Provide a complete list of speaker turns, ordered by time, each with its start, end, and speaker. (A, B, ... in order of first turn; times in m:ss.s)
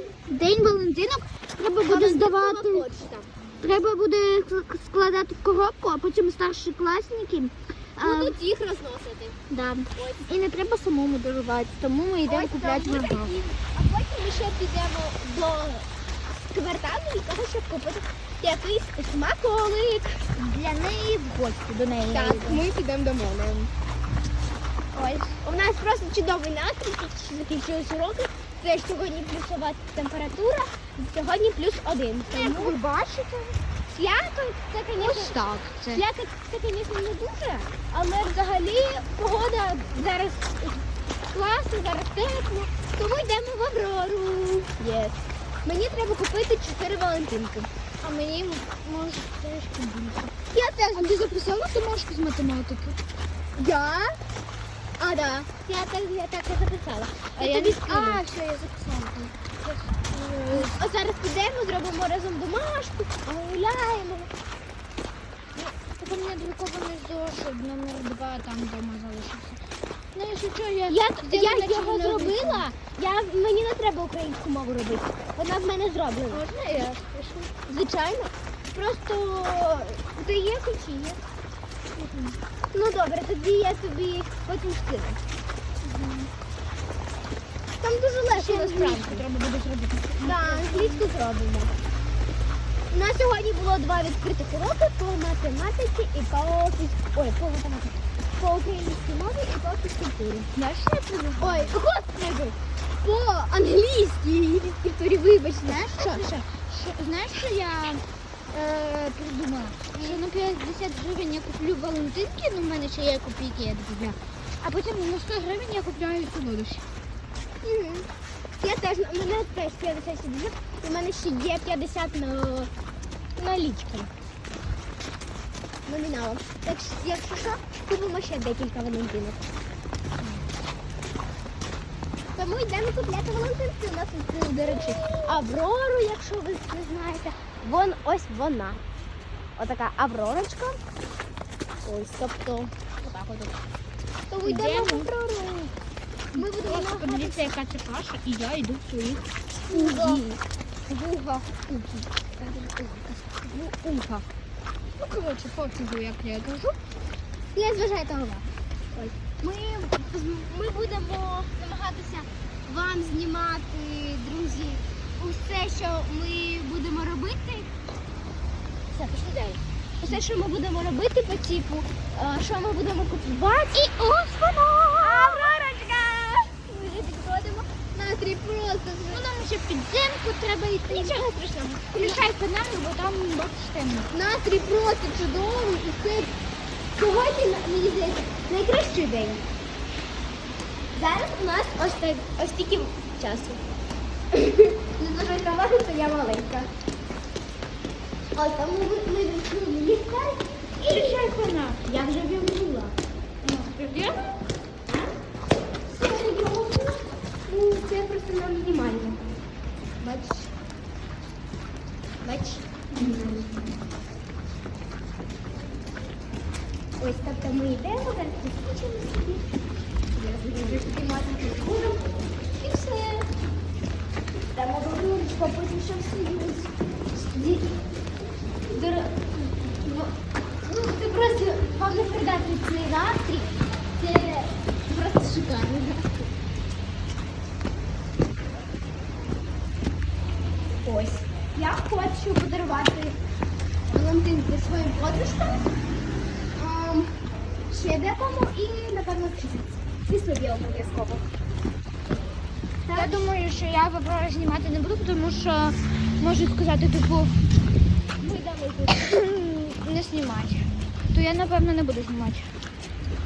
0:00.3-0:02.8 A
0:01.8-0:03.3 B
0:03.6-0:08.4 A
0:08.0-0:09.4 B
0:09.5-0:13.4 A
0:09.9-0:10.3 B
0:12.3-0:15.9 B
0:16.4-0:20.3 B
0:20.4-0:22.6 A
0:22.1-0:23.7 B
0:24.9-0:25.4 A
0:25.4-0:32.8 B
0:32.3-0:33.6 A
0:33.9-0:47.7 B
0:35.0-0:36.0 A
0:48.0-0:50.3 A
0:50.5-0:51.3 B
0:50.9-0:53.0 A
0:53.6-0:54.2 B
0:55.0-0:58.2 B
0:57.4-1:00.8 A
1:00.5-1:04.3 B
1:05.6-1:09.6 A
1:10.1-1:12.7 A
1:10.9-1:16.4 B
1:16.3-1:17.5 A
1:17.7-1:21.2 B
1:22.0-1:22.4 A
1:22.7-1:25.2 B
1:25.8-1:26.3 A
1:27.8-1:29.2 B
1:28.3-1:31.0 A
1:30.2-1:31.8 B
1:32.9-1:40.5 B
1:40.6-1:41.8 A
1:41.4-1:46.3 B
1:45.6-1:56.8 A
1:49.9-1:50.2 B
1:57.6-1:58.1 B
1:58.6-2:02.7 B
2:03.4-2:04.1 B
2:05.9-2:09.5 B
2:12.4-2:18.8 B
2:14.7-2:15.3 A
2:19.6-2:20.8 B
2:21.8-2:23.6 B
2:24.3-2:25.7 B
2:24.4-2:25.1 A
2:26.3-2:30.2 A
2:26.4-2:27.4 B
2:29.7-2:34.0 B
2:31.0-2:32.5 A
2:33.1-2:34.2 A
2:35.0-2:36.8 A
2:37.5-2:47.7 B
2:48.9-2:53.9 B
2:53.7-2:55.7 A
2:55.0-2:59.3 B
2:59.1-3:01.1 A
3:00.9-3:02.2 B
3:01.9-3:04.1 A
3:04.1-3:06.3 B
3:07.0-3:09.4 B
3:10.9-3:13.6 B
3:14.3-3:16.7 B
3:18.4-3:20.4 B
3:20.8-3:21.9 A
3:21.8-3:23.0 B
3:23.4-3:24.4 A
3:25.9-3:29.3 B
3:30.0-3:30.5 B
3:32.2-3:33.4 B
3:32.9-3:33.6 A
3:37.0-3:39.4 B
3:40.1-3:43.3 B
3:44.5-3:47.7 B
3:48.7-3:50.1 B
3:50.6-3:56.3 B
4:00.8-4:03.2 B
4:03.9-4:05.7 B
4:06.6-4:07.2 B
4:07.7-4:11.2 B
4:12.9-4:13.3 B
4:12.9-4:17.4 A
4:18.2-4:19.2 B
4:19.0-4:22.5 A